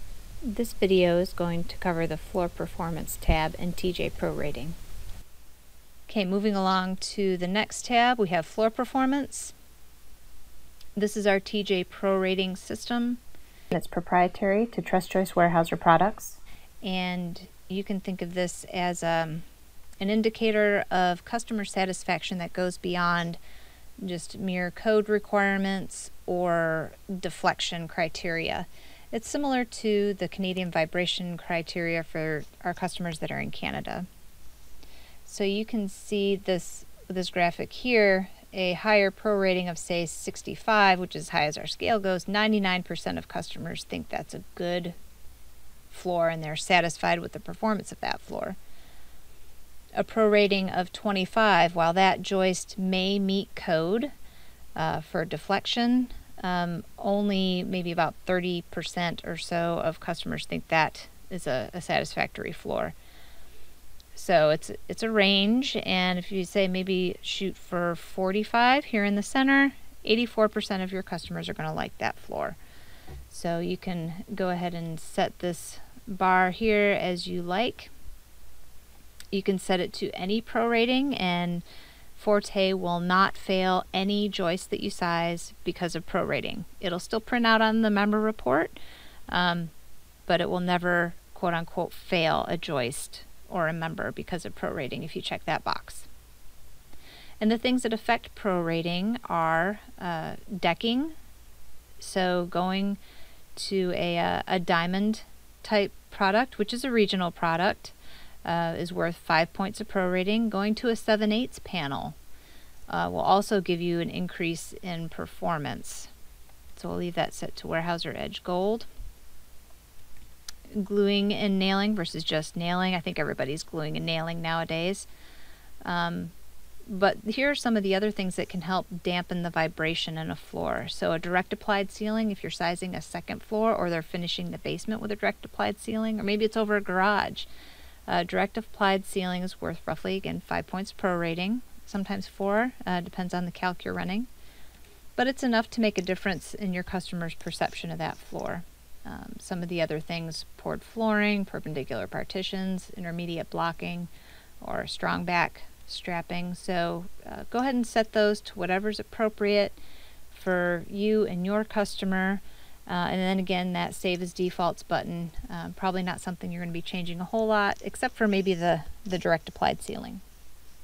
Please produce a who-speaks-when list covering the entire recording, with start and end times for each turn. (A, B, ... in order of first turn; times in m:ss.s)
0:00.4-0:04.8 A
0:06.1-0:09.5 A
0:11.0-0:13.2 A
0:13.7-0:19.4 A
0:20.0-0:23.4 A
0:24.0-0:34.1 A
0:35.2-0:45.0 A
0:45.9-0:48.6 A
0:50.0-0:54.1 A
0:54.8-1:02.9 A
1:04.1-1:12.6 A
1:13.3-1:17.9 A
1:19.3-1:21.6 A
1:22.1-1:28.8 A
1:29.3-1:29.7 A
1:30.3-1:36.1 A
1:37.4-1:41.1 A
1:42.0-1:43.0 A
1:43.6-1:52.2 A
1:52.9-1:56.1 A
1:56.7-1:58.9 A
2:00.7-2:05.1 A
2:05.8-2:06.3 A
2:06.9-2:17.5 A
2:18.1-2:24.3 A
2:25.2-2:34.1 A
2:34.6-2:39.8 A
2:40.3-2:50.2 A